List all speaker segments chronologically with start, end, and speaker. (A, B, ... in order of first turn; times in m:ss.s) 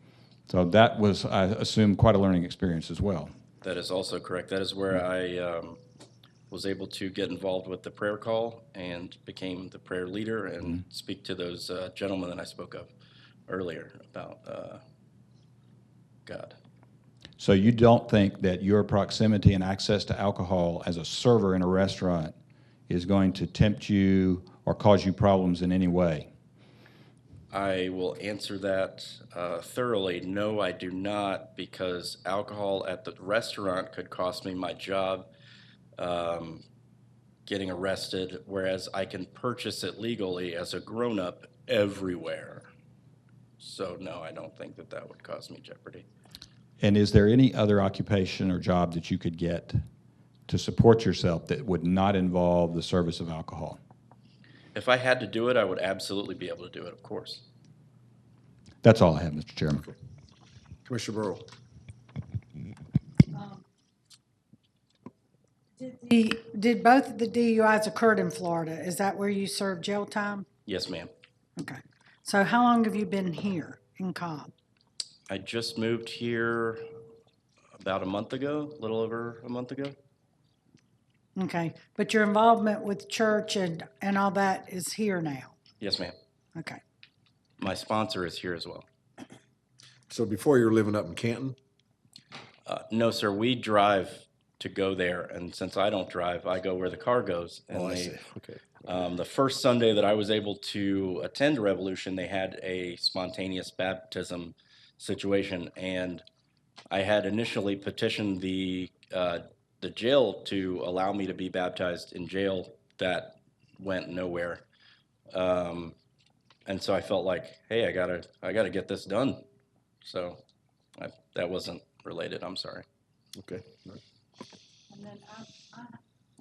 0:00.5-0:03.3 A
0:03.6-0:05.8 B
0:06.5-0:12.9 B
0:13.5-0:14.8 B
0:16.3-0:16.6 B
0:17.4-0:22.3 A
0:22.9-0:26.3 A
0:27.5-0:35.3 B
0:36.0-0:36.6 B
0:37.5-0:42.7 B
0:43.6-0:46.1 B
0:46.8-0:49.8 A
0:50.5-0:53.8 A
0:54.8-0:57.4 B
0:58.8-0:59.8 A
1:00.8-1:01.5 C
1:03.3-1:03.6 D
1:05.8-1:10.5 D
1:10.7-1:11.1 B
1:11.6-1:14.5 D
1:15.3-1:16.8 B
1:17.8-1:20.0 B
1:21.4-1:25.6 D
1:25.8-1:26.2 B
1:26.6-1:26.8 D
1:27.6-1:28.9 B
1:30.1-1:31.6 C
1:32.7-1:38.2 B
1:37.7-1:39.1 C
1:38.9-1:46.2 B
1:46.9-1:54.6 B
1:55.3-1:55.9 B
1:56.7-1:59.4 B
2:00.0-2:00.4 B
2:01.0-2:02.8 B
2:03.4-2:04.0 C
2:04.9-2:06.0 D